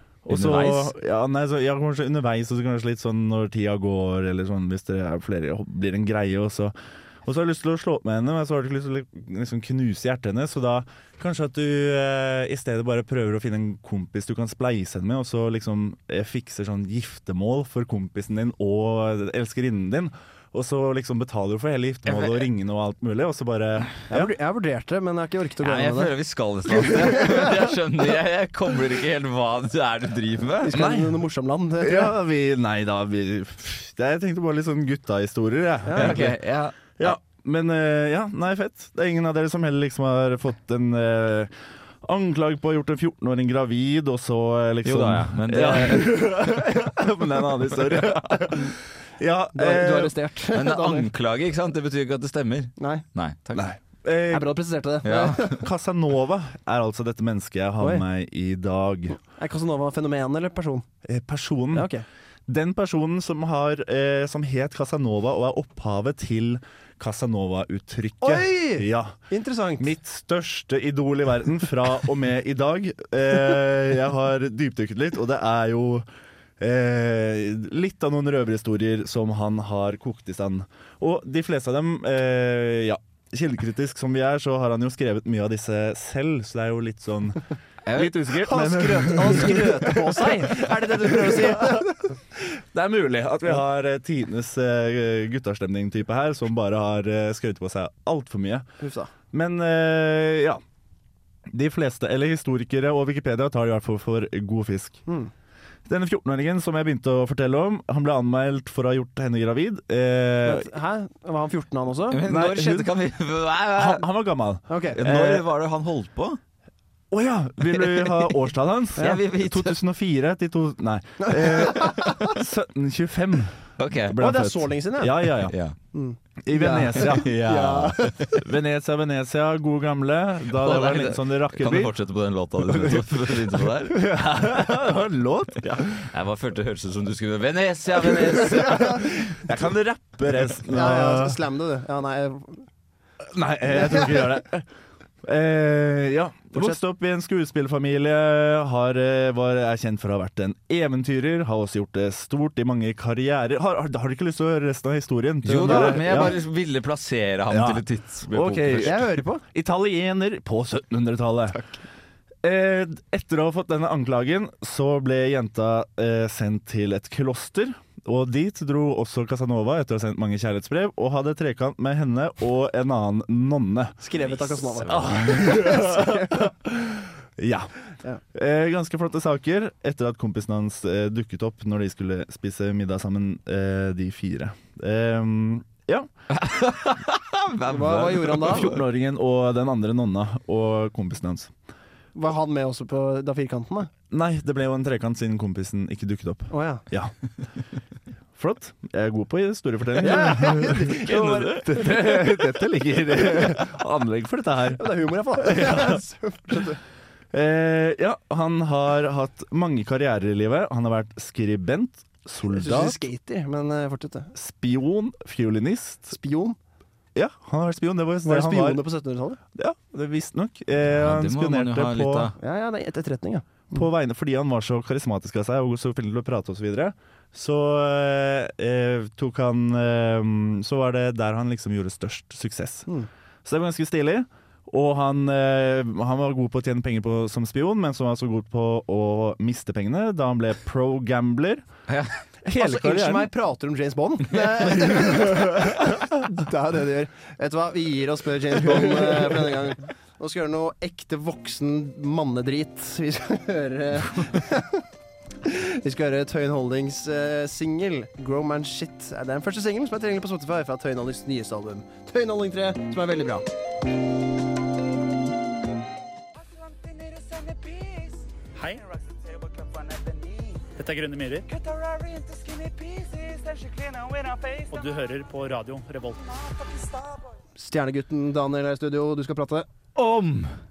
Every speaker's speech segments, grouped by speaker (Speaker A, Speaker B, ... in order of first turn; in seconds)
Speaker A: 0.2-6.7, 7.2-24.3, 30.7-31.2, 31.8-36.3, 37.0-50.1, 53.5-54.6, 55.5-59.2, 61.0-61.9, 62.5-69.2, 69.8-76.0, 76.6-87.4, 88.0-91.8, 92.5-98.7, 99.3-100.6, 101.5-105.0, 105.9-110.7, 112.2-112.9, 113.7-115.4, 117.1-125.5, 126.4-131.9, 132.6-136.1, 138.9-141.4, 143.2-144.7, 145.2-156.4, 157.5-161.6, 162.4-174.0, 174.8-177.7, 178.3-186.1, 188.2-191.5, 194.1-197.1, 198.3-206.0, 207.3-212.9, 214.3-216.2, 217.1-218.8, 219.5-222.3, 223.7-232.9, 233.4-241.7, 242.4-243.3, 244.9-245.7
Speaker B: 0.3-0.9, 22.1-22.5, 25.6-30.7, 35.9-37.1, 44.8-46.4, 48.0-48.4, 50.5-53.6, 55.0-55.5, 87.8-88.3, 112.1-114.0, 114.9-116.4, 117.7-118.3, 119.0-119.8, 123.8-124.2, 125.5-125.8, 130.5-134.0, 135.7-139.4, 155.4-159.0, 174.5-175.1, 186.3-188.8, 201.1-201.4, 220.9-222.3, 241.9-242.1, 279.9-280.5
Speaker C: 24.1-26.1, 26.7-27.6, 30.6-32.2, 35.9-36.3, 49.5-51.1, 52.8-53.0, 54.3-55.6, 57.8-58.0, 59.4-60.8, 61.7-62.0, 68.2-69.9, 88.0-92.1, 98.8-99.1, 110.4-112.2, 114.7-115.0, 121.2-122.3, 124.2-125.3, 125.9-128.1, 140.7-142.7, 155.6-156.3, 158.8-159.4, 174.0-176.4, 187.6-188.7, 192.1-193.9, 196.5-196.8, 200.0-202.3, 204.8-206.8, 212.5-214.3, 216.1-216.6, 218.2-219.4, 222.4-223.8, 242.5-254.8, 255.4-263.4, 277.6-279.7
Speaker D: 266.6-277.1